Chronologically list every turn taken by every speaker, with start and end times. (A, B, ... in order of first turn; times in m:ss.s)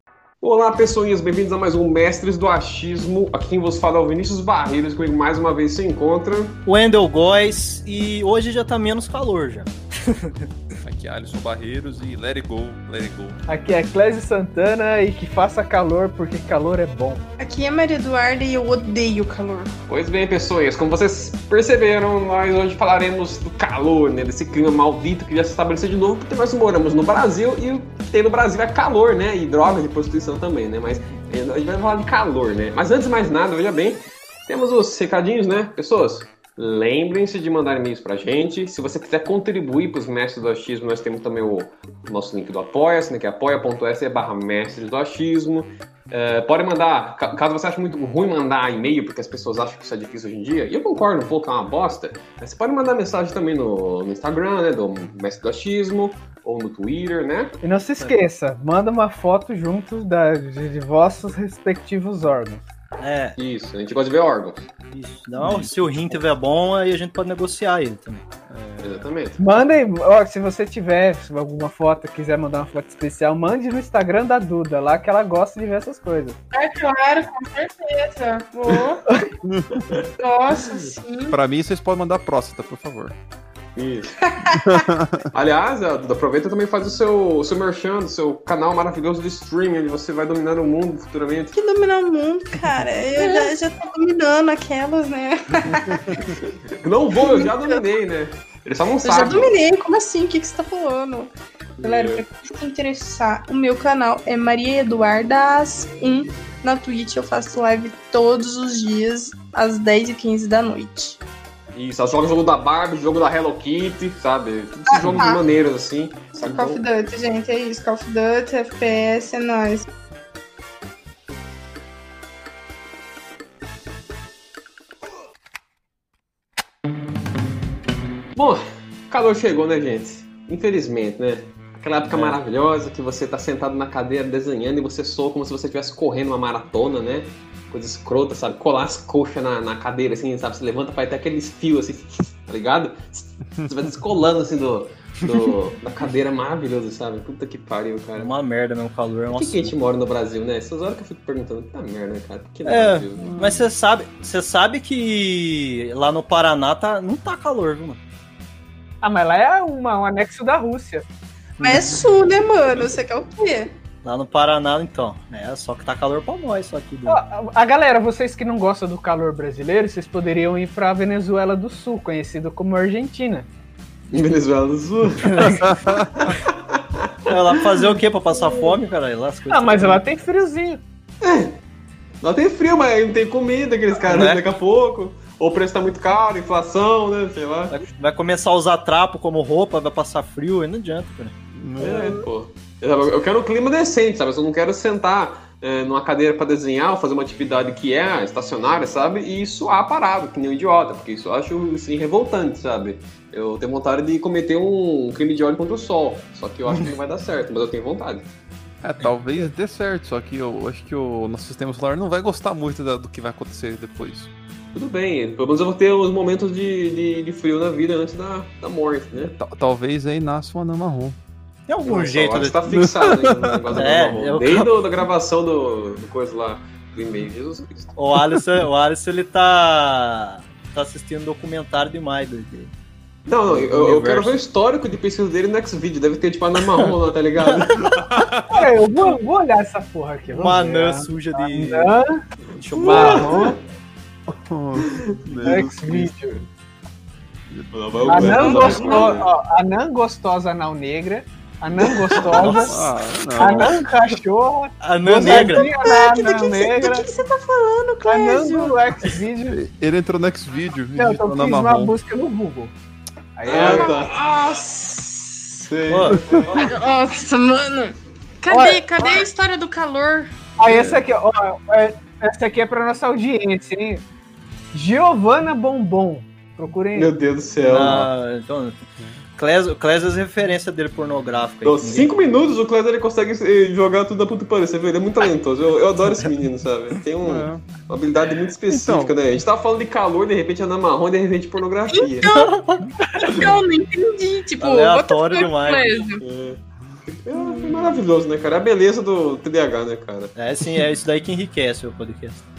0:00.4-0:06.6 A
0:06.7-0:10.5 B
0:10.8-0:13.4 C
0:13.5-0:17.2 D
0:17.4-0:19.7 E
0:19.9-0:57.6 A
0:57.6-1:02.6 D
1:03.0-1:03.4 B
1:03.4-1:04.7 A
1:04.9-1:08.2 B
1:05.4-1:06.0 C
1:08.5-1:09.1 C
1:08.8-1:09.4 A
1:09.4-1:16.4 D
1:16.5-1:19.0 E
1:19.4-1:19.9 C
1:20.2-1:21.4 E
1:20.7-1:20.9 A
1:21.3-1:23.2 C
1:23.8-1:24.2 A
1:24.2-1:24.8 E
1:24.6-1:25.3 C
1:25.3-1:31.6 A
1:31.5-1:36.3 E
1:33.2-1:33.5 A
1:35.9-1:36.3 C
1:36.4-1:39.5 A
1:37.3-1:37.8 E
1:39.0-1:51.2 E
1:41.8-1:42.2 A
1:51.7-1:56.8 A
1:54.9-1:55.4 E
1:56.4-1:59.9 E
2:08.4-2:28.3 A
2:12.1-2:12.4 B
2:28.2-2:29.7 B
2:29.3-2:33.3 A
2:32.6-2:38.0 B
2:33.2-2:33.6 C
2:39.0-2:41.1 D
2:41.6-2:42.0 B
2:41.6-2:43.7 E
2:44.0-2:47.2 B
2:47.1-2:53.5 D
2:54.1-2:55.4 A
2:55.4-2:56.4 C
2:56.2-2:57.4 A
2:57.3-3:00.0 B
2:59.5-3:00.8 D
3:01.2-3:01.6 A
3:02.2-3:07.8 A
3:04.1-3:04.4 B
3:07.7-3:11.4 B
3:11.6-3:12.2 C
3:11.8-3:28.3 A
3:28.8-3:34.3 C
3:34.7-3:39.4 A
3:39.2-3:41.2 C
3:41.7-3:42.8 B
3:41.8-3:48.0 A
3:42.8-3:43.7 C
3:43.7-3:44.7 B
3:48.0-3:52.7 B
3:53.3-3:58.1 A
3:53.5-3:54.4 B
3:58.1-3:58.7 C
3:58.5-4:02.1 D
4:00.3-4:01.9 B
4:02.6-4:03.4 B
4:02.8-4:03.6 A
4:02.8-4:03.6 D
4:04.3-4:06.1 C
4:04.9-4:05.2 A
4:05.4-4:06.5 D
4:07.5-4:08.5 C
4:07.7-4:09.3 A
4:08.1-4:17.1 D
4:08.2-4:09.2 E
4:11.8-4:12.3 A
4:12.3-4:12.9 B
4:12.6-4:13.9 C
4:14.8-4:15.7 B
4:15.3-4:18.8 E
4:18.0-4:19.6 D
4:19.5-4:22.0 C
4:21.0-4:22.7 D
4:23.4-4:24.0 D
4:23.5-4:24.2 A
4:23.5-4:25.7 E
4:25.7-4:26.7 A
4:25.9-4:26.2 B
4:26.5-4:30.3 E
4:28.5-4:29.2 D
4:30.6-4:34.0 D
4:30.6-4:31.0 A
4:34.7-4:37.1 D
4:36.9-4:38.1 A
4:37.6-4:38.8 B
4:39.4-4:42.1 B
4:41.6-4:52.3 A
4:47.2-4:47.7 C
4:48.7-4:49.1 C
4:51.9-4:56.2 E
4:52.2-4:52.9 B
4:54.6-4:56.0 B
4:56.2-4:56.6 A
4:57.2-5:00.3 A
5:00.4-5:02.4 B